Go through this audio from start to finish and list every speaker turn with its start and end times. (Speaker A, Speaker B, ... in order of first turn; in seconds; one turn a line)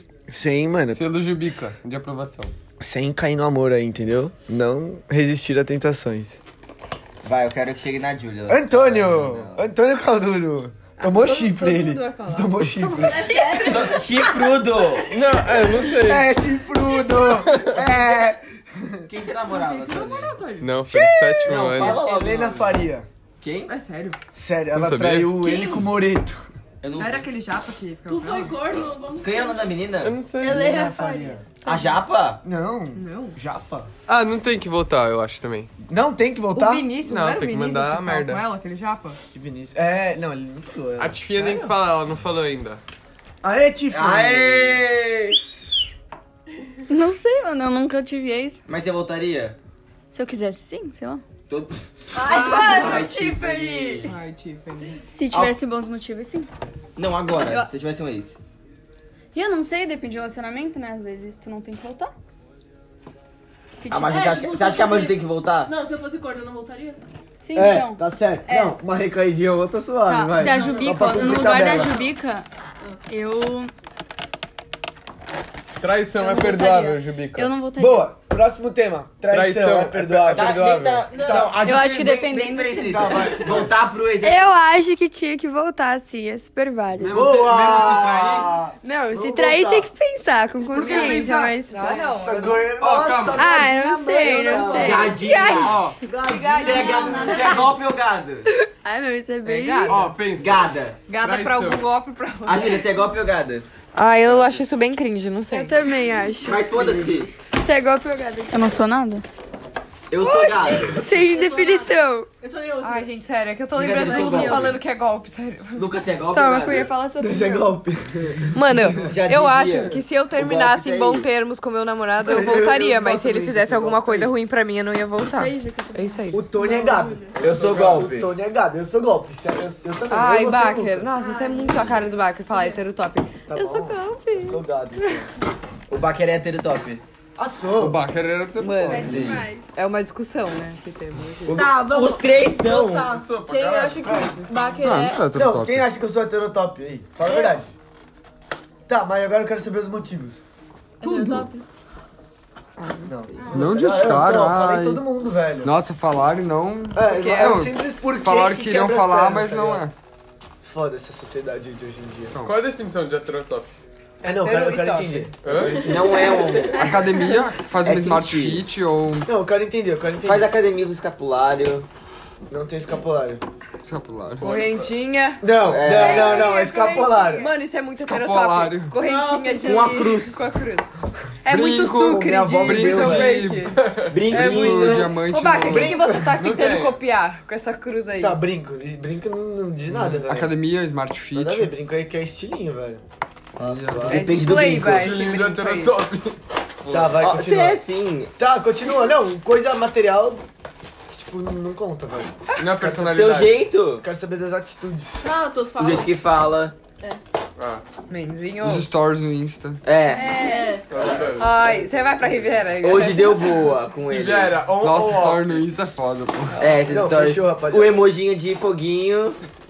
Speaker A: 0.3-1.0
Speaker B: 0.9-2.5
Speaker A: 2.8-6.4
Speaker C: 7.2-9.7
Speaker A: 8.5-13.3
Speaker D: 11.0-13.9
Speaker E: 13.0-14.3
Speaker F: 13.3-13.6
Speaker C: 13.6-15.2
Speaker B: 15.1-16.3
Speaker A: 15.8-19.0
Speaker C: 17.7-18.4
Speaker C: 19.1-20.4
Speaker D: 19.5-20.8
Speaker B: 20.6-22.0
Speaker A: 20.9-23.1
Speaker C: 21.4-22.8
Speaker C: 23.4-23.7
Speaker D: 23.7-24.2
Speaker A: 24.3-26.4
Speaker B: 24.7-25.4
Speaker C: 26.8-27.2
Speaker D: 27.0-28.6
Speaker E: 28.1-29.7
Speaker C: 29.2-30.1
Speaker B: 30.0-30.6
Speaker F: 30.4-31.7
Speaker A: 30.4-31.4
Speaker C: 31.6-32.4
Speaker A: 32.4-33.9
Speaker D: 32.9-33.4
Speaker B: 34.1-35.7
Speaker A: 35.9-36.9
Speaker D: 36.5-39.2
Speaker B: 37.0-38.5
Speaker A: 39.3-41.2
Speaker B: 41.0-42.8
Speaker D: 41.3-41.7
Speaker A: 43.4-44.8
Speaker C: 43.9-45.6
Speaker F: 46.9-48.6
Speaker C: 48.7-49.6
Speaker F: 50.1-51.2
Speaker C: 51.5-54.1
Speaker F: 52.1-54.1
Speaker D: 52.2-53.0
Speaker D: 54.0-55.0
Speaker F: 55.0-56.5
Speaker C: 57.0-58.4
Speaker F: 57.4-57.7
Speaker F: 59.3-62.1
Speaker F: 63.8-64.4
Speaker C: 63.9-65.7
Speaker E: 64.1-67.0
Speaker F: 67.4-68.8
Speaker A: 67.5-72.0
Speaker F: 70.1-72.5
Speaker E: 70.4-72.1
Speaker F: 73.1-73.7
Speaker B: 75.8-77.6
Speaker F: 76.1-78.1
Speaker A: 77.8-81.6
Speaker B: 79.3-81.0
Speaker C: 80.3-84.5
Speaker E: 81.1-81.5
Speaker F: 81.5-83.4
Speaker A: 82.9-83.7
Speaker F: 84.2-87.3
Speaker B: 87.0-88.5
Speaker A: 87.1-89.9
Speaker F: 88.8-92.4
Speaker B: 90.7-91.5
Speaker D: 90.8-92.7
Speaker A: 91.8-95.2
Speaker B: 92.7-93.7
Speaker F: 93.4-95.6
Speaker D: 94.0-97.6
Speaker C: 94.7-95.8
Speaker B: 95.6-96.0
Speaker A: 96.0-97.1
Speaker F: 96.6-97.7
Speaker C: 96.6-98.5
Speaker F: 98.7-100.1
Speaker D: 99.4-100.1
Speaker B: 99.8-101.9
Speaker C: 100.4-101.0
Speaker D: 101.1-102.8
Speaker C: 102.5-103.7
Speaker D: 103.9-105.8
Speaker B: 104.3-104.6
Speaker F: 105.5-106.7
Speaker C: 106.4-107.3
Speaker F: 107.5-109.2
Speaker C: 110.1-111.0
Speaker F: 110.2-112.3
Speaker E: 110.9-113.1
Speaker D: 112.8-115.8
Speaker C: 113.8-114.8
Speaker E: 113.9-114.6
Speaker C: 115.7-116.9
Speaker F: 116.3-117.8
Speaker A: 117.2-119.1
Speaker D: 118.5-126.6
Speaker C: 119.0-121.3
Speaker A: 122.2-124.3
Speaker F: 125.5-126.2
Speaker E: 125.5-125.8
Speaker A: 126.3-131.1
Speaker E: 126.6-127.3
Speaker B: 127.4-128.1
Speaker C: 127.4-128.3
Speaker D: 130.1-135.2
Speaker F: 131.2-132.0
Speaker A: 133.5-135.3
Speaker C: 135.9-137.0
Speaker A: 137.3-138.0
Speaker G: 137.8-139.3
Speaker D: 138.6-141.7
Speaker F: 138.9-139.7
Speaker C: 139.0-139.4
Speaker E: 141.5-145.3
Speaker C: 141.5-143.1
Speaker B: 143.1-144.4
Speaker D: 144.0-144.6
Speaker G: 144.8-145.8
Speaker A: 145.3-147.7
Speaker E: 147.3-147.5
Speaker A: 148.9-150.4
Speaker E: 151.0-151.6
Speaker D: 152.8-153.6
Speaker A: 153.1-155.7
Speaker G: 153.5-155.0
Speaker G: 155.6-159.9
Speaker A: 156.9-159.9
Speaker D: 157.0-157.6
Speaker A: 160.6-162.3
Speaker G: 162.3-162.6
Speaker B: 162.4-163.7
Speaker A: 164.2-165.8
Speaker D: 164.2-165.3
Speaker B: 165.4-165.9
Speaker C: 165.8-167.0
Speaker G: 166.7-169.3
Speaker C: 167.8-168.6
Speaker A: 169.2-170.5
Speaker C: 170.2-171.9
Speaker A: 172.5-173.4
Speaker G: 173.8-174.6
Speaker D: 174.4-176.5
Speaker A: 175.4-177.5
Speaker C: 175.7-176.5
Speaker F: 175.8-177.5
Speaker D: 177.3-180.9
Speaker G: 178.0-179.0
Speaker E: 179.1-179.9
Speaker C: 179.6-180.4
Speaker D: 181.4-188.4
Speaker G: 181.5-186.2
Speaker A: 182.0-183.5
Speaker B: 183.8-184.2
Speaker C: 184.1-185.1
Speaker A: 185.6-186.3
Speaker B: 186.3-187.0
Speaker A: 188.2-190.6
Speaker G: 189.9-191.7
Speaker A: 191.3-193.0
Speaker A: 193.6-194.5
Speaker G: 193.6-194.2
Speaker D: 194.1-196.0
Speaker C: 194.1-195.2
Speaker B: 194.7-197.2
Speaker A: 196.9-197.8
Speaker C: 197.2-198.3
Speaker A: 198.4-200.4
Speaker A: 201.1-203.1
Speaker B: 202.6-203.7
Speaker C: 202.9-204.0
Speaker A: 204.0-205.3
Speaker E: 205.2-206.1
Speaker C: 205.8-206.7
Speaker B: 207.6-207.8
Speaker D: 208.1-208.9
Speaker G: 208.6-209.8
Speaker C: 209.8-210.3
Speaker F: 210.1-210.8
Speaker E: 210.1-210.9
Speaker B: 210.9-211.7
Speaker A: 210.9-211.9
Speaker D: 211.4-213.7
Speaker C: 212.8-214.7
Speaker B: 214.1-215.7
Speaker G: 214.7-216.6
Speaker C: 216.6-219.4
Speaker A: 216.8-218.1